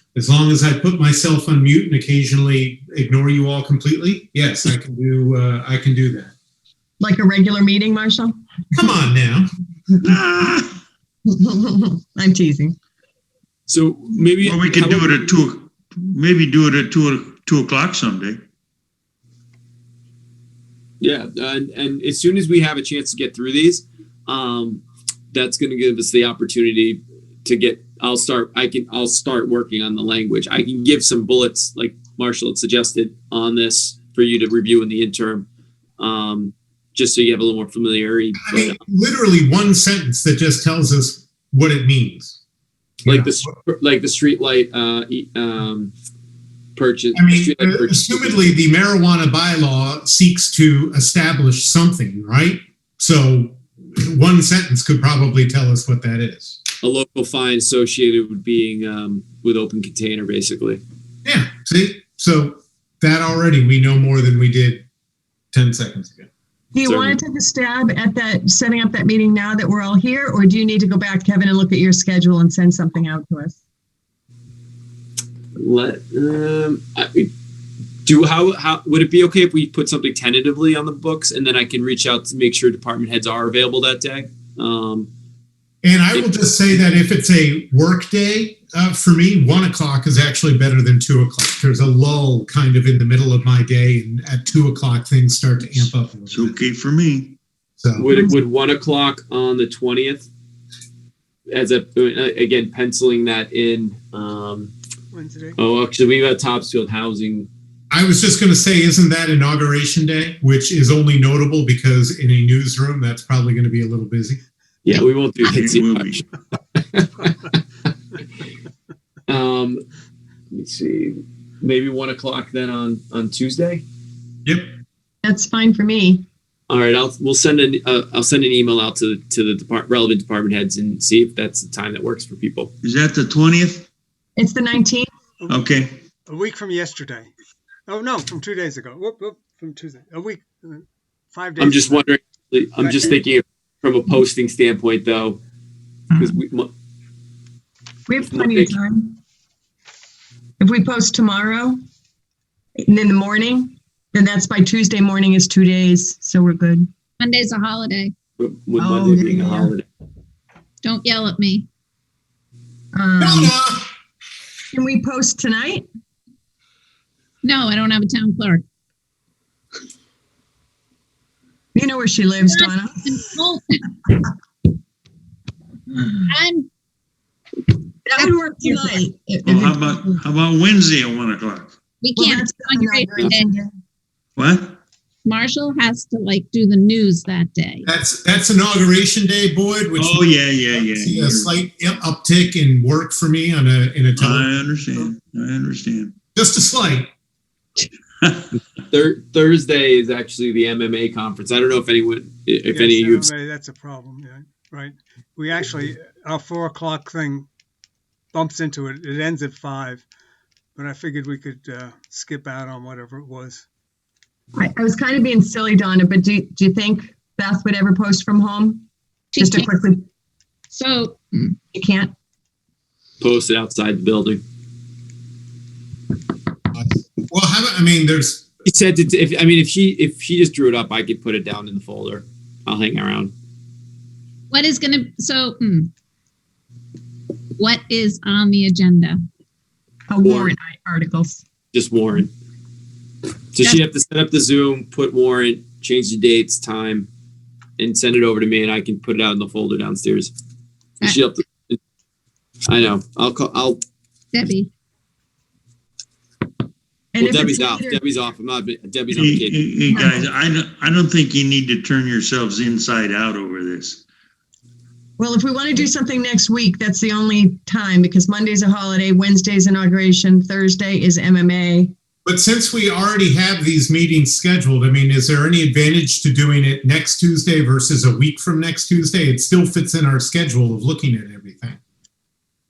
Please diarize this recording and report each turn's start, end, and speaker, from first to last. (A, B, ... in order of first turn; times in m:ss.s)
0:00.2-0:06.3 A
0:07.0-0:08.4 B
0:08.7-0:09.5 A
0:10.1-0:10.7 C
0:11.3-0:12.8 B
0:13.7-0:15.3 D
0:14.4-0:18.4 C
0:21.0-0:35.4 D
0:36.0-0:38.8 D
0:38.4-0:42.4 A
0:43.0-0:43.5 A
0:43.0-0:45.9 D
0:46.8-0:48.6 D
0:47.1-0:56.6 A
0:56.8-1:00.8 D
1:01.2-1:04.9 A
1:05.5-1:06.3 A
1:06.8-1:13.6 B
1:06.8-1:07.2 D
1:15.6-1:17.3 D
1:18.0-1:25.1 D
1:25.8-1:36.6 A
1:36.3-1:37.4 C
1:37.8-1:38.1 A
1:38.0-1:40.3 D
1:41.5-1:44.7 D
1:45.1-1:45.6 E
1:45.6-1:47.5 D
1:47.9-1:54.4 A
1:54.8-1:56.1 D
1:55.4-1:56.2 C
1:56.8-1:57.6 D
1:59.3-1:59.8 D
2:00.5-2:03.8 D
2:04.4-2:04.7 A
2:05.2-2:06.2 B
2:06.7-2:12.7 D
2:12.8-2:13.9 C
2:14.4-2:15.1 B
2:15.4-2:15.7 E
2:15.5-2:16.0 C
2:16.2-2:17.3 E
2:17.9-2:22.1 E
2:21.6-2:25.4 D
2:22.8-2:23.0 E
2:26.2-2:26.7 D
2:28.1-2:29.2 B
2:28.2-2:28.8 D
2:30.6-2:31.8 B
2:32.8-2:36.9 B
2:37.2-2:38.1 F
2:38.4-2:39.8 D
2:38.8-2:39.7 B
2:40.8-2:41.7 F
2:42.9-2:43.5 B
2:43.2-2:43.9 A
2:44.7-2:45.8 B
2:47.4-2:48.6 F
2:51.8-2:53.2 B
2:52.4-2:53.9 F
2:56.3-2:56.7 F
2:58.0-3:00.2 B
2:58.2-2:58.9 F
2:59.5-3:01.7 C
3:02.0-3:03.5 F
3:02.2-3:03.7 B
3:04.4-3:04.8 C
3:05.2-3:07.9 F
3:07.8-3:14.5 A
3:10.0-3:11.5 C
3:14.2-3:16.2 C
3:16.3-3:17.1 A
3:18.9-3:23.2 D
3:22.7-3:27.5 E
3:28.3-3:30.0 E
3:30.8-3:33.7 E
3:34.6-3:38.9 B
3:39.3-3:39.7 F
3:39.4-3:40.0 B
3:40.7-3:41.6 F
3:41.7-3:42.1 B
3:43.2-3:44.4 D
3:46.7-3:48.5 A
3:48.6-3:53.3 D
3:54.5-3:55.9 F
3:57.6-3:59.2 F
4:00.1-4:01.4 B
4:00.2-4:00.6 D
4:01.7-4:02.3 D
4:03.5-4:07.1 D
4:07.8-4:10.3 D
4:11.0-4:11.8 D
4:12.7-4:13.8 D
4:14.3-4:14.7 F
4:17.1-4:18.0 B
4:17.2-4:19.7 D
4:19.1-4:24.0 C
4:19.9-4:20.3 B
4:25.2-4:31.9 B
4:32.2-4:41.8 A